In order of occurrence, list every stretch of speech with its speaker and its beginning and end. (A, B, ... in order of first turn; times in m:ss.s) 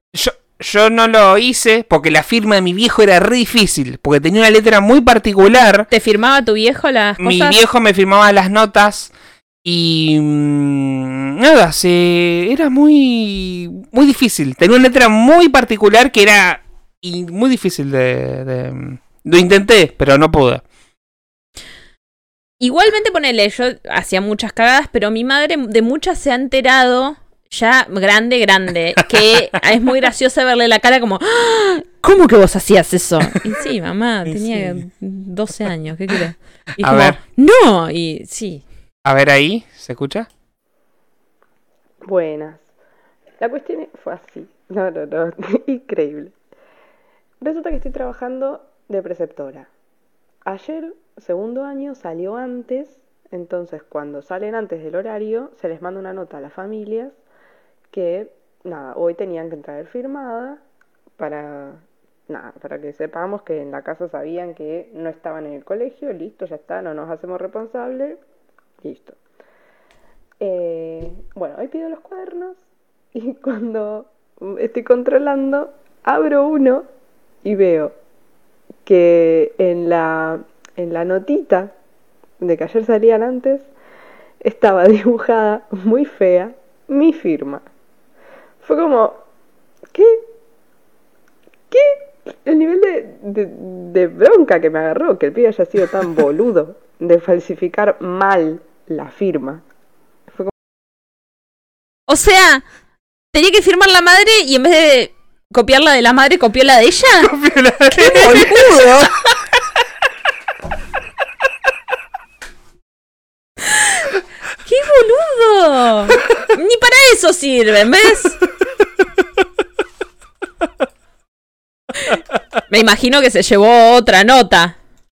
0:00.1-0:05.9 A
0:05.9-0:07.6 B
0:07.2-0:09.1 A
0:09.6-0:20.6 A
0:22.6-0:38.6 B
0:34.3-0:34.8 A
0:36.8-0:37.2 A
0:39.0-0:40.3 A
0:42.0-0:42.7 C
0:43.4-0:46.3 C
0:47.4-0:49.7 C
0:50.4-0:57.2 C
0:57.9-1:00.6 C
1:01.2-1:08.2 C
1:08.8-1:09.2 C
1:10.4-1:12.6 C
1:13.2-1:16.9 C
1:17.4-1:17.9 C
1:18.9-1:21.7 C
1:22.4-1:23.7 C
1:24.4-1:27.7 C
1:28.6-1:29.2 C
1:29.9-1:30.2 C
1:31.7-1:39.6 C
1:42.1-1:42.6 B
1:43.3-1:47.3 B
1:47.2-1:48.6 A
1:47.9-1:49.2 B
1:53.7-1:54.1 B
1:54.7-1:58.4 B
2:02.7-2:04.8 B